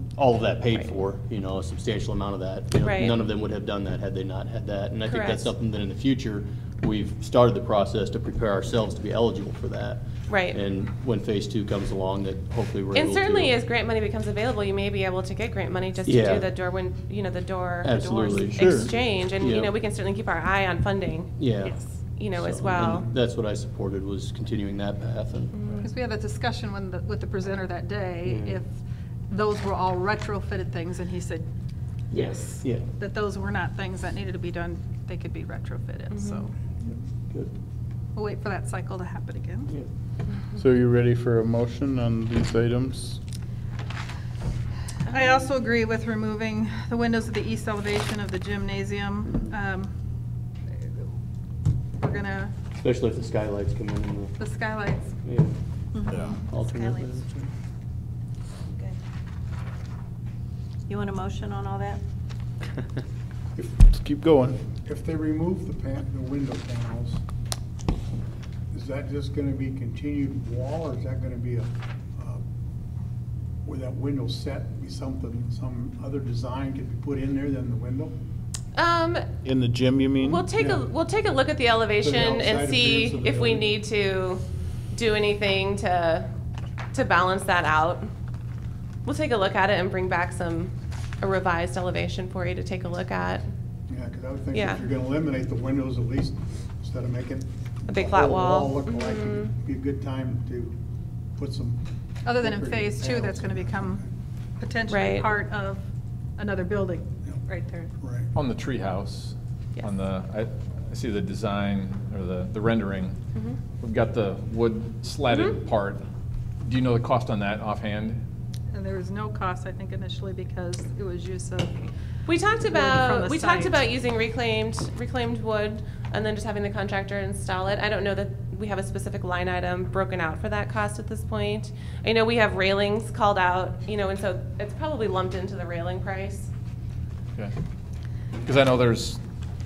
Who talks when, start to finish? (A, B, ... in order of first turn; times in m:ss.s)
0:00.2-0:13.6 A
0:02.8-0:03.2 B
0:05.1-0:05.5 B
0:10.3-0:10.6 B
0:12.9-0:21.4 B
0:16.0-0:16.5 A
0:17.8-0:19.7 A
0:21.4-0:21.8 A
0:22.2-0:23.1 B
0:22.3-0:25.7 A
0:25.5-0:25.9 B
0:25.8-0:28.7 C
0:28.2-0:28.6 A
0:29.3-0:31.5 C
0:32.1-0:32.9 A
0:32.2-0:36.6 C
0:36.1-0:36.5 B
0:36.9-0:37.5 A
0:38.2-0:39.7 C
0:40.5-0:43.2 D
0:45.1-0:49.9 C
0:52.0-0:52.5 C
0:52.8-0:54.4 A
0:54.4-0:55.1 C
0:55.2-0:55.5 A
0:56.0-0:56.8 E
0:56.1-0:56.4 F
0:56.3-0:57.5 A
1:00.9-1:02.0 E
1:03.6-1:04.7 D
1:04.8-1:07.2 G
1:08.7-1:12.4 G
1:13.6-1:18.1 G
1:18.8-1:19.2 B
1:19.4-1:20.5 D
1:20.2-1:26.3 B
1:20.5-1:20.9 G
1:22.0-1:23.7 G
1:26.9-1:28.1 B
1:29.0-1:33.5 B
1:33.9-1:40.8 G
1:34.5-1:34.8 B
1:37.9-1:39.5 B
1:41.4-1:41.8 G
1:42.2-1:44.0 C
1:42.3-1:44.1 G
1:44.6-1:45.8 C
1:44.9-1:45.3 B
1:46.4-1:47.9 C
1:48.0-1:48.3 G
1:48.3-1:53.2 F
1:53.8-1:56.0 F
1:55.3-1:55.6 B
1:56.6-1:58.2 F
1:58.7-2:01.9 C
2:02.3-2:16.5 B
2:02.6-2:03.8 C
2:18.4-2:19.2 F